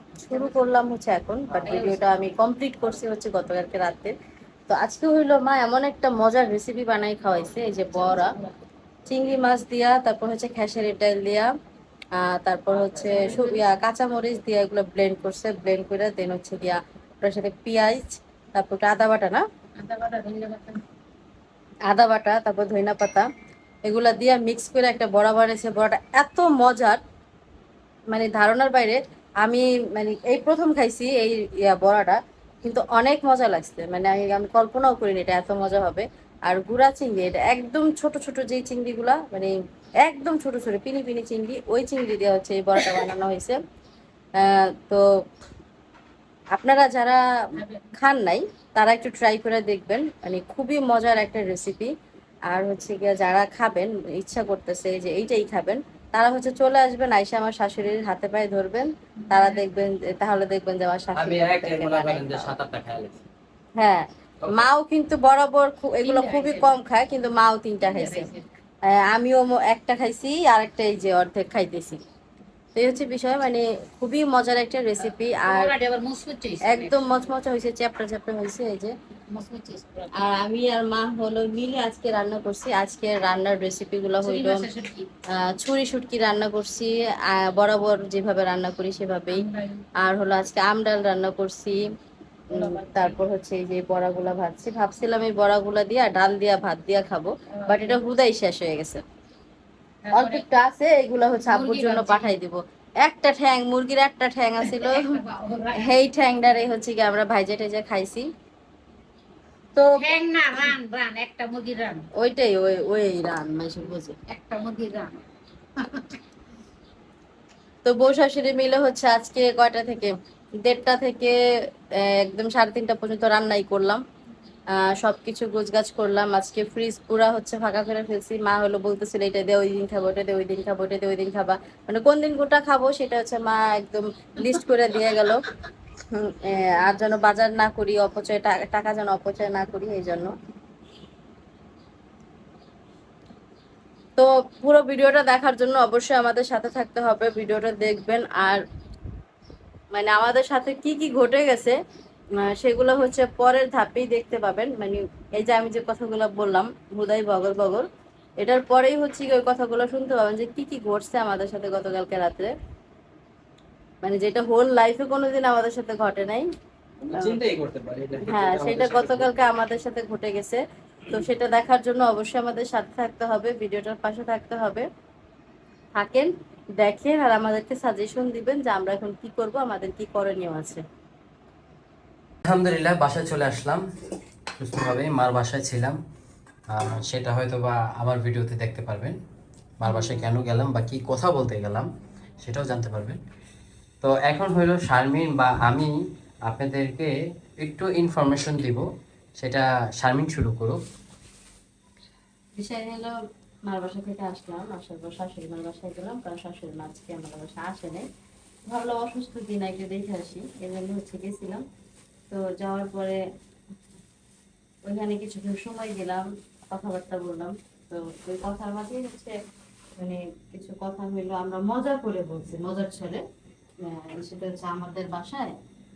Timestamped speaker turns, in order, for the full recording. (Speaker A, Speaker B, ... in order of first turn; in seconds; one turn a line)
Speaker A: 0.2-4.1
Speaker A: 4.7-8.3
Speaker A: 9.1-11.5
Speaker A: 12.2-19.4
Speaker B: 13.1-13.4
Speaker B: 19.8-20.8
Speaker A: 21.9-23.3
Speaker A: 23.9-27.0
Speaker A: 28.1-43.5
Speaker A: 44.4-45.0
Speaker A: 46.5-51.9
Speaker A: 52.5-62.5
Speaker C: 61.1-63.2
Speaker A: 63.8-68.3
Speaker B: 66.0-66.7
Speaker B: 67.9-68.4
Speaker A: 68.9-72.0
Speaker A: 72.7-75.8
Speaker B: 75.4-76.9
Speaker A: 76.6-78.9
Speaker B: 79.3-80.1
Speaker A: 80.1-84.7
Speaker B: 84.2-85.1
Speaker A: 85.3-89.5
Speaker A: 90.0-91.8
Speaker A: 92.5-99.0
Speaker B: 92.5-93.0
Speaker B: 97.7-98.0
Speaker B: 100.0-100.4
Speaker A: 100.1-108.3
Speaker B: 101.5-102.3
Speaker B: 104.8-105.9
Speaker A: 109.7-110.7
Speaker B: 110.0-112.0
Speaker A: 112.1-114.2
Speaker B: 114.3-115.2
Speaker B: 115.8-116.2
Speaker A: 117.8-120.1
Speaker A: 120.6-121.3
Speaker A: 122.0-124.0
Speaker A: 124.7-135.4
Speaker A: 136.1-140.3
Speaker A: 144.2-148.6
Speaker A: 149.9-151.8
Speaker A: 152.3-157.8
Speaker A: 158.4-162.5
Speaker A: 164.0-166.5
Speaker C: 167.0-169.3
Speaker A: 168.2-174.8
Speaker A: 176.0-180.8
Speaker C: 182.4-183.8
Speaker C: 184.6-186.0
Speaker C: 186.7-189.2
Speaker C: 189.8-191.9
Speaker A: 189.8-190.3
Speaker C: 192.4-193.2
Speaker C: 194.0-195.9
Speaker C: 196.4-198.8
Speaker C: 199.4-200.8
Speaker A: 202.6-203.1
Speaker A: 203.7-208.1
Speaker A: 208.7-211.6
Speaker A: 212.3-213.2
Speaker A: 214.8-219.3
Speaker A: 220.0-223.2
Speaker A: 223.8-225.5